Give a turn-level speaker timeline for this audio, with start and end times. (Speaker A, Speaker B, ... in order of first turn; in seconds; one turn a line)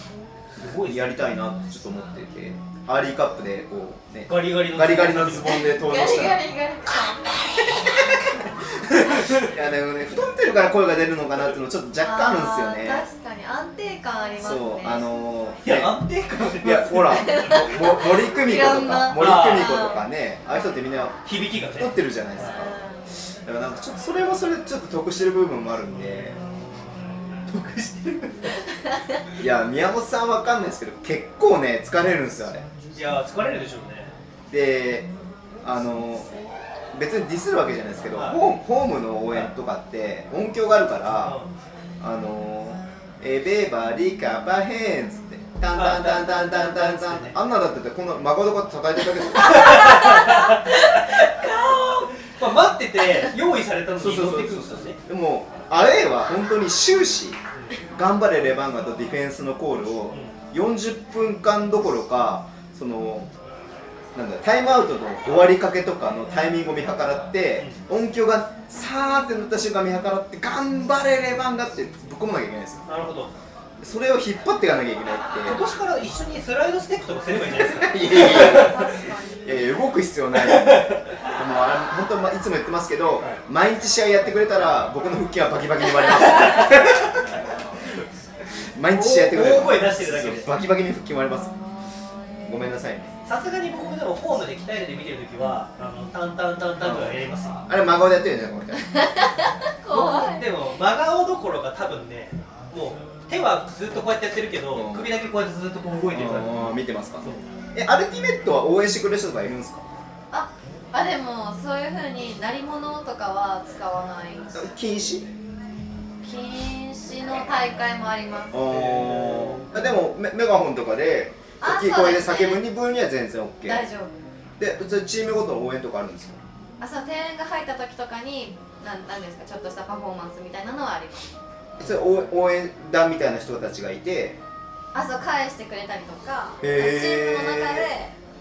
Speaker A: 0.6-1.3
Speaker B: 0.8-6.5
Speaker A: 4.3-5.7
Speaker C: 5.7-7.3
Speaker A: 8.8-9.5
Speaker B: 9.3-13.1
Speaker C: 12.0-15.1
Speaker B: 14.4-16.0
Speaker A: 15.6-17.8
Speaker B: 16.6-21.2
Speaker C: 17.3-20.1
Speaker A: 19.1-19.8
Speaker A: 21.2-22.6
Speaker B: 21.7-22.8
Speaker C: 22.4-23.1
Speaker B: 23.4-26.4
Speaker A: 25.9-28.6
Speaker B: 29.4-32.7
Speaker A: 32.9-34.1
Speaker B: 34.5-35.1
Speaker B: 35.6-36.3
Speaker B: 36.9-41.4
Speaker A: 38.1-38.5
Speaker A: 41.2-41.5
Speaker B: 42.0-50.0
Speaker A: 45.7-47.4
Speaker A: 49.4-51.3
Speaker C: 49.5-52.1
Speaker A: 52.2-55.0
Speaker B: 54.0-63.3
Speaker A: 57.5-57.8
Speaker A: 60.1-60.4
Speaker B: 64.2-72.9
Speaker A: 72.9-73.3
Speaker B: 73.8-75.6
Speaker A: 75.4-78.8
Speaker B: 77.4-87.2
Speaker C: 78.1-79.7
Speaker A: 80.4-81.1
Speaker A: 86.4-86.7
Speaker B: 88.8-91.5
Speaker A: 88.9-90.5
Speaker B: 92.4-93.2
Speaker A: 93.2-97.6
Speaker B: 96.8-99.0
Speaker C: 99.8-100.5
Speaker A: 99.9-107.4
Speaker B: 104.7-105.1
Speaker B: 106.1-109.9
Speaker C: 110.3-114.7
Speaker B: 114.5-115.3
Speaker C: 116.2-118.6
Speaker B: 118.5-123.8
Speaker A: 118.7-119.8
Speaker C: 121.6-122.6
Speaker C: 123.7-124.1
Speaker B: 124.6-126.4
Speaker C: 126.8-131.3
Speaker B: 131.8-134.4
Speaker A: 131.8-132.3
Speaker C: 134.9-138.1
Speaker B: 136.6-137.9